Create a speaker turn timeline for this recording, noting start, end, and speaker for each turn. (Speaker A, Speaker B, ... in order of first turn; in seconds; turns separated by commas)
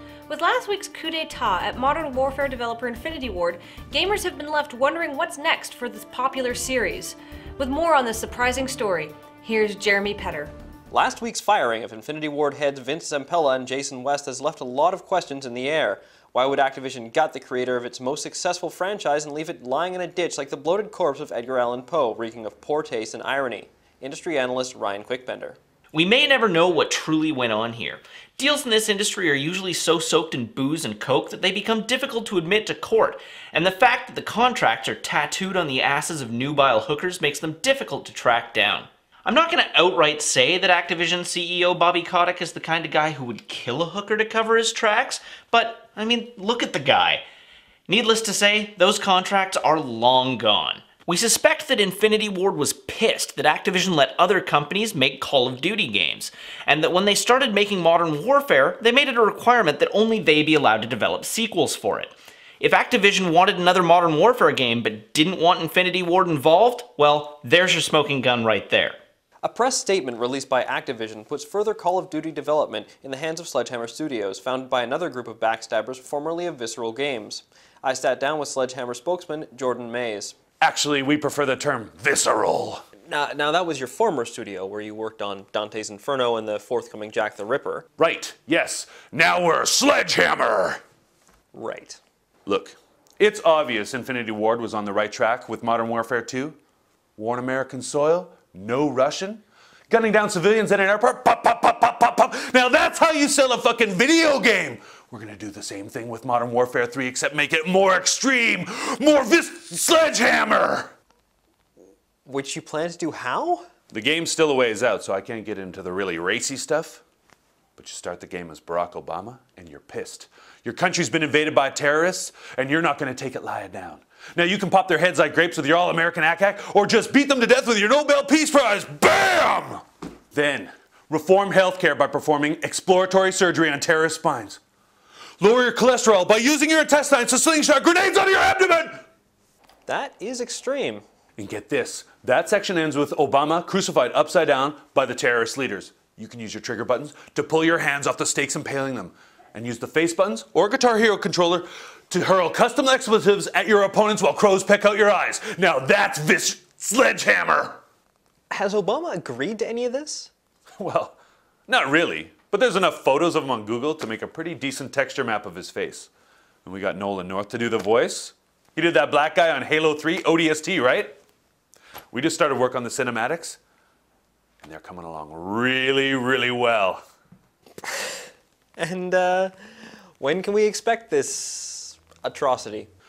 Speaker A: 0.3-10.5, Speaker B: 10.9-25.6, Speaker C: 25.9-47.2, Speaker C: 47.9-69.0, Speaker B: 69.4-80.3, Speaker D: 80.6-82.8, Speaker B: 83.1-87.9, Speaker D: 88.0-90.8, Speaker B: 91.5-92.0, Speaker D: 92.5-96.6, Speaker D: 97.2-110.9, Speaker B: 112.2-113.6, Speaker D: 113.9-117.0, Speaker D: 117.8-134.6, Speaker D: 135.4-139.0, Speaker B: 139.9-141.0, Speaker D: 141.4-157.8, Speaker B: 158.5-160.3, Speaker D: 160.8-161.2, Speaker D: 161.7-166.1, Speaker D: 166.6-171.1, Speaker D: 172.1-173.6, Speaker D: 174.6-177.0, Speaker B: 177.8-178.1, Speaker B: 178.8-179.5, Speaker B: 180.2-182.9